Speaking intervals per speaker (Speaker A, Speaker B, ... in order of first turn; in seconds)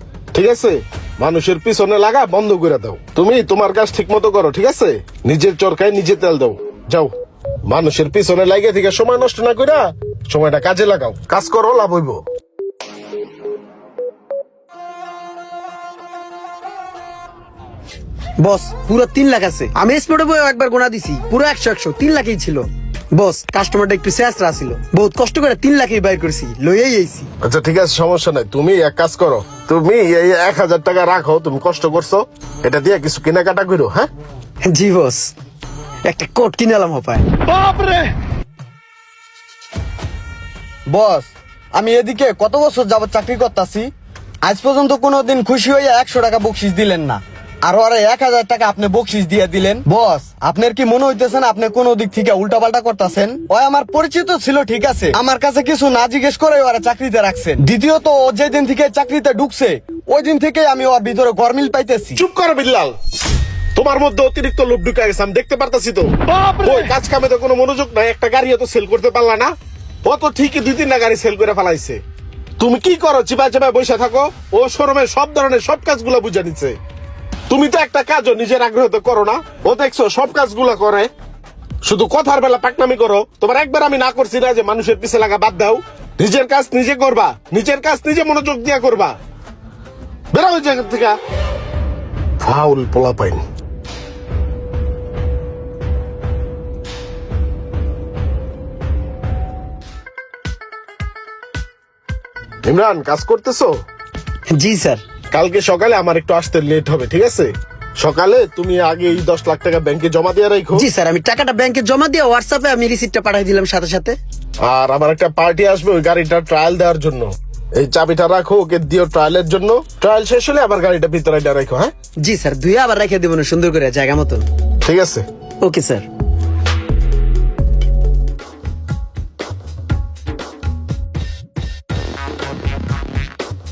Speaker A: 0.3-7.1, 7.7-12.2, 27.4-34.1, 62.1-62.9, 63.8-69.5, 70.0-72.0, 72.6-76.8, 77.5-81.1, 81.8-89.1, 90.3-91.2, 92.4-93.4, 102.6-103.7, 105.3-110.8, 114.6-121.9, 124.8-125.2
Speaker B: 18.4-27.3, 34.6-35.3, 36.1-37.5, 104.5-105.0, 110.8-114.2, 122.2-124.4, 125.6-126.0
Speaker C: 40.9-43.9, 44.4-62.2